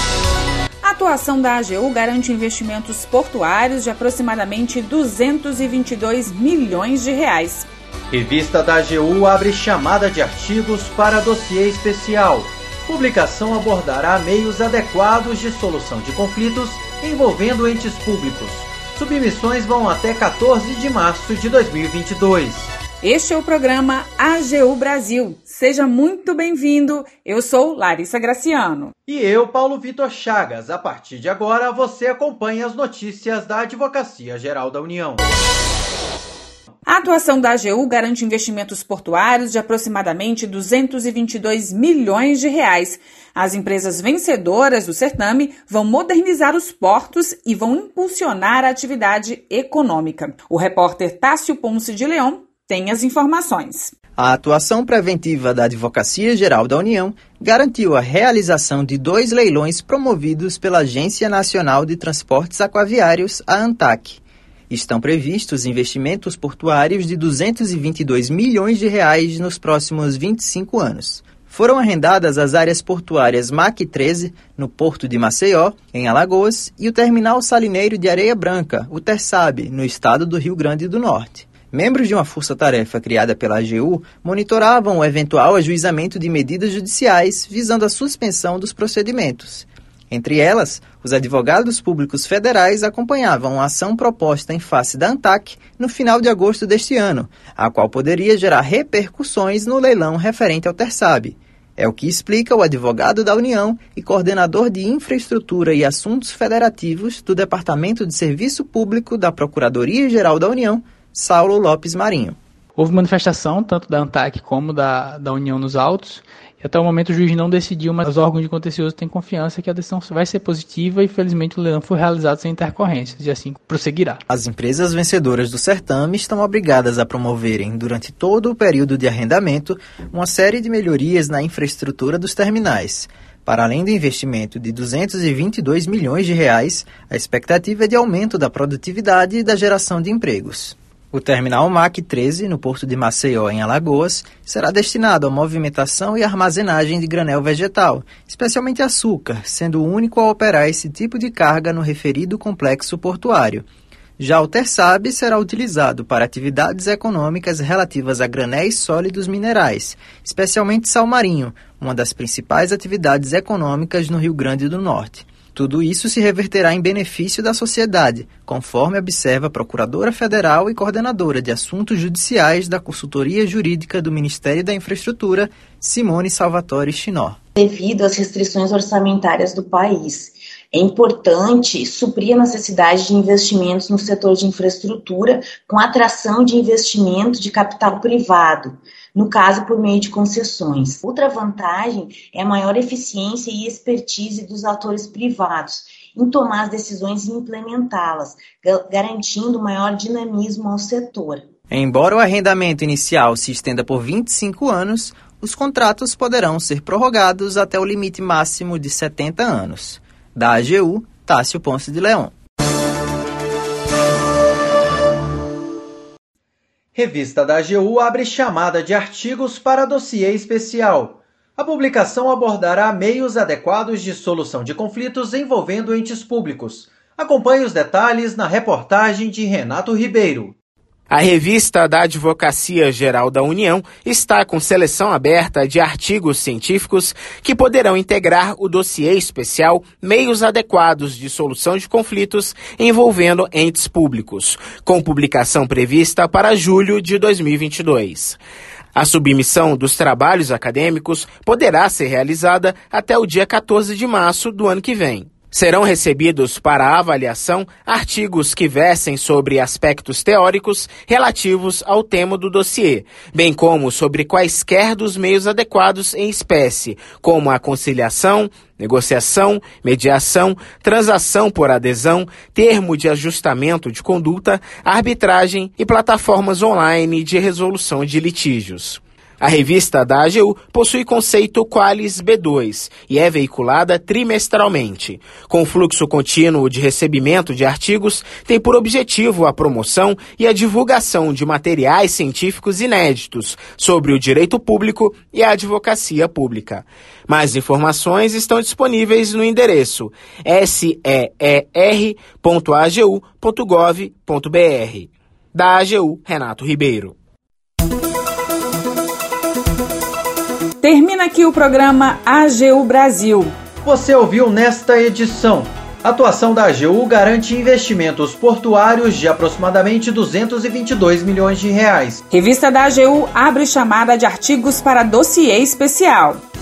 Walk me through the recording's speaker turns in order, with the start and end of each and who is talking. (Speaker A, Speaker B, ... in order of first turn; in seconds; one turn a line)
Speaker A: 0.8-7.7
Speaker B: 8.1-22.7
Speaker A: 23.0-28.9
Speaker B: 29.1-35.2
Speaker A: 36.9-53.9
Speaker C: 54.2-112.4
Speaker D: 112.8-124.2
Speaker C: 124.3-153.7
Speaker C: 154.2-177.4
Speaker E: 177.6-201.4
Speaker C: 201.7-212.3
Speaker B: 216.9-230.5
Speaker F: 231.1-248.4
Speaker F: 248.9-307.1
Speaker A: 310.8-313.5
Speaker B: 313.8-322.2
Speaker A: 322.3-326.4